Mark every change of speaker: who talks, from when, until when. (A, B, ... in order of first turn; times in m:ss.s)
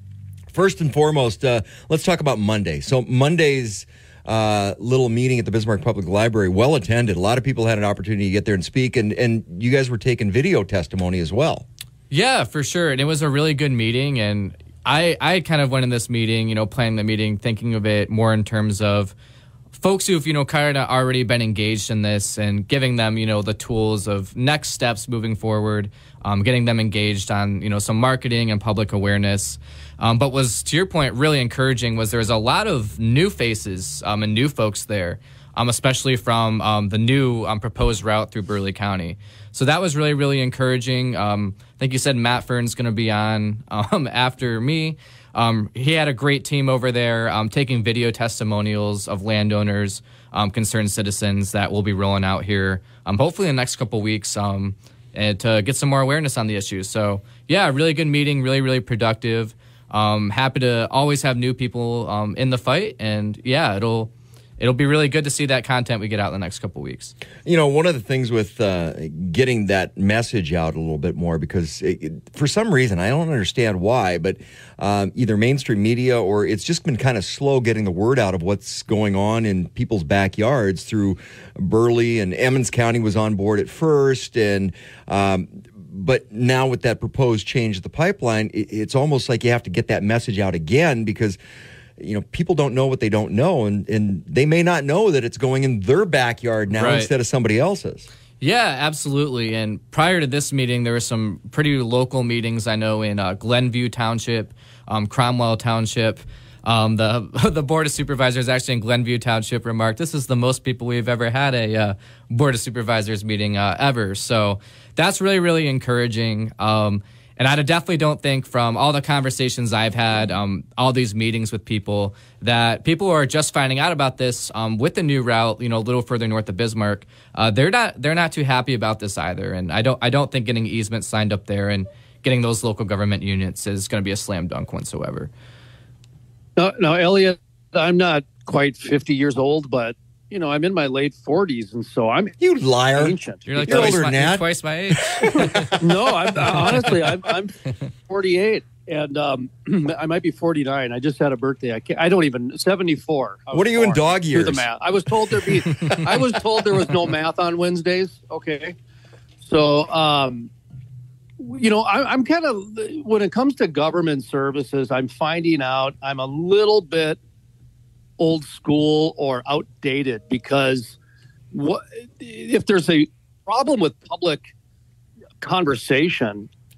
0:00.5-0:11.7 A
0:12.1-0:19.1 B
0:19.7-1:07.1 B
1:07.4-1:31.4 A
1:32.0-1:38.1 A
1:36.7-1:37.1 B
1:38.4-2:15.3 B
2:16.6-2:22.4 C
2:22.4-2:25.6 A
2:22.9-2:24.0 C
2:23.5-2:25.7 B
2:25.8-2:38.8 C
2:26.5-2:26.8 B
2:33.5-2:34.7 A
2:39.4-2:40.5 C
2:41.4-2:47.2 C
2:48.2-2:51.0 C
2:51.5-2:54.5 C
2:55.4-2:56.5 C